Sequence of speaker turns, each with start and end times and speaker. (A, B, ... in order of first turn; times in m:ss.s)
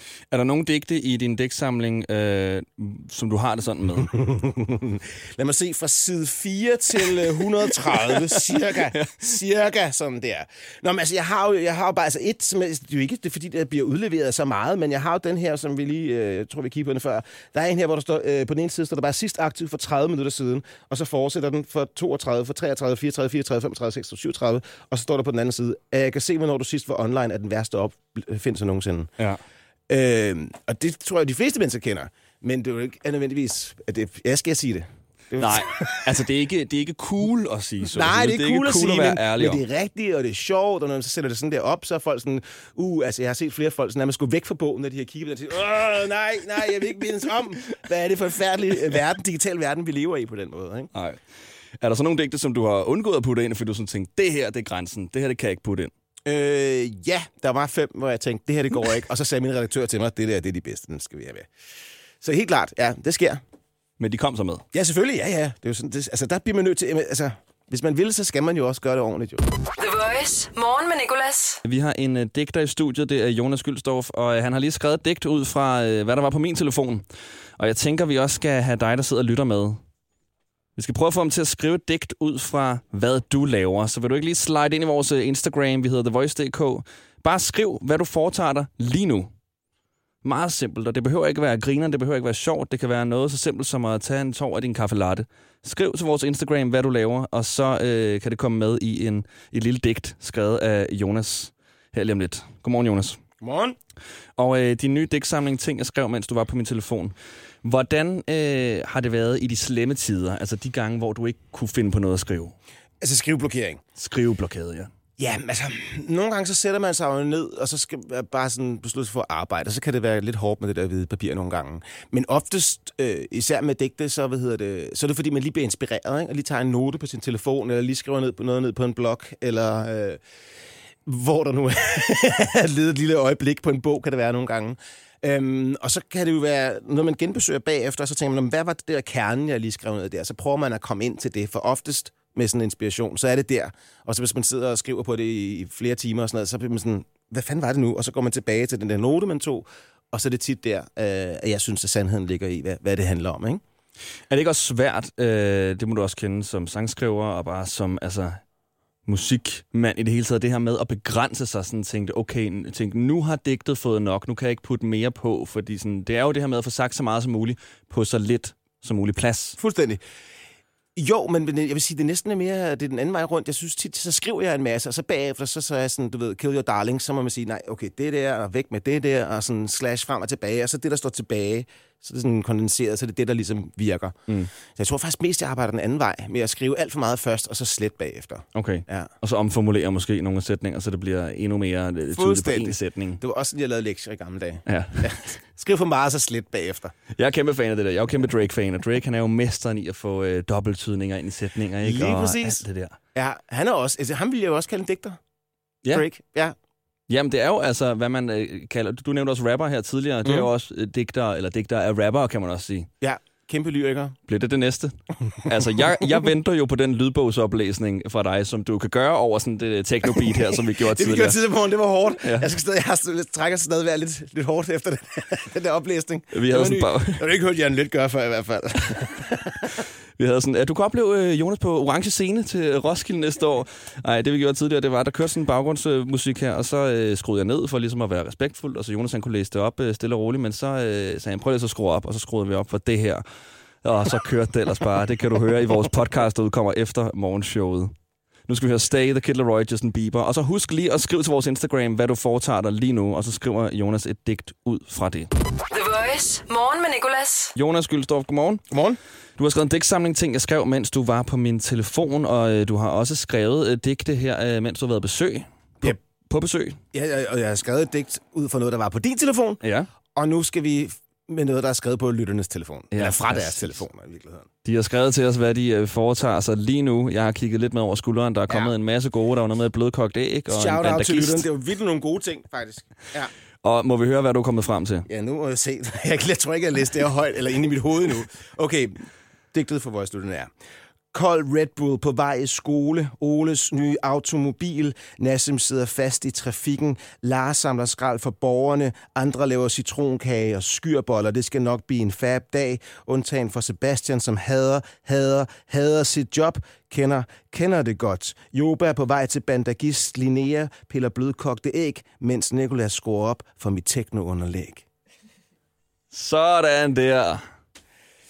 0:00.3-0:04.1 A
0:04.0-0:29.1 B
0:07.8-0:09.2 A
0:29.9-0:36.1 B
0:35.4-0:39.6 A
0:37.8-0:50.9 B
0:50.9-0:51.2 A
0:51.8-0:55.9 A
0:56.2-1:01.5 B
1:02.2-1:03.4 B
1:04.0-1:04.6 A
1:04.7-1:09.4 B
1:09.7-1:11.6 C
1:11.6-1:17.0 A
1:17.6-1:19.8 A
1:20.8-1:29.3 A
1:30.2-1:43.2 A
1:43.4-1:43.8 B
1:44.4-1:52.5 A
1:53.0-1:53.8 B
1:54.0-1:54.9 A
1:55.2-2:10.2 B
2:11.0-2:33.6 B
2:34.3-2:38.4 A
2:39.0-2:49.6 A
2:49.6-2:50.0 B
2:51.0-3:09.1 B
3:08.5-3:13.2 A
3:12.1-3:16.9 B
3:14.7-3:15.3 A
3:17.2-3:23.0 A
3:21.8-3:22.6 B
3:23.1-3:25.2 B
3:25.9-3:26.5 B
3:27.1-3:32.9 A
3:33.0-3:34.2 B
3:34.3-3:41.4 A
3:40.0-3:49.7 B
3:42.2-3:42.5 A
3:46.3-3:47.2 A
3:50.2-4:03.2 A
4:03.8-4:07.9 A
4:08.5-4:15.3 A
4:15.7-4:17.5 C
4:17.5-4:18.6 A
4:18.7-4:19.0 B
4:19.4-4:26.8 A
4:26.9-4:29.6 B
4:29.6-4:29.9 A
4:30.1-4:34.5 B
4:32.9-4:33.8 A
4:34.6-4:41.5 A
4:40.5-4:43.3 B
4:43.6-4:45.1 A
4:45.1-4:49.0 B
4:49.5-4:50.5 B
4:51.1-5:14.8 B
5:16.1-5:17.4 A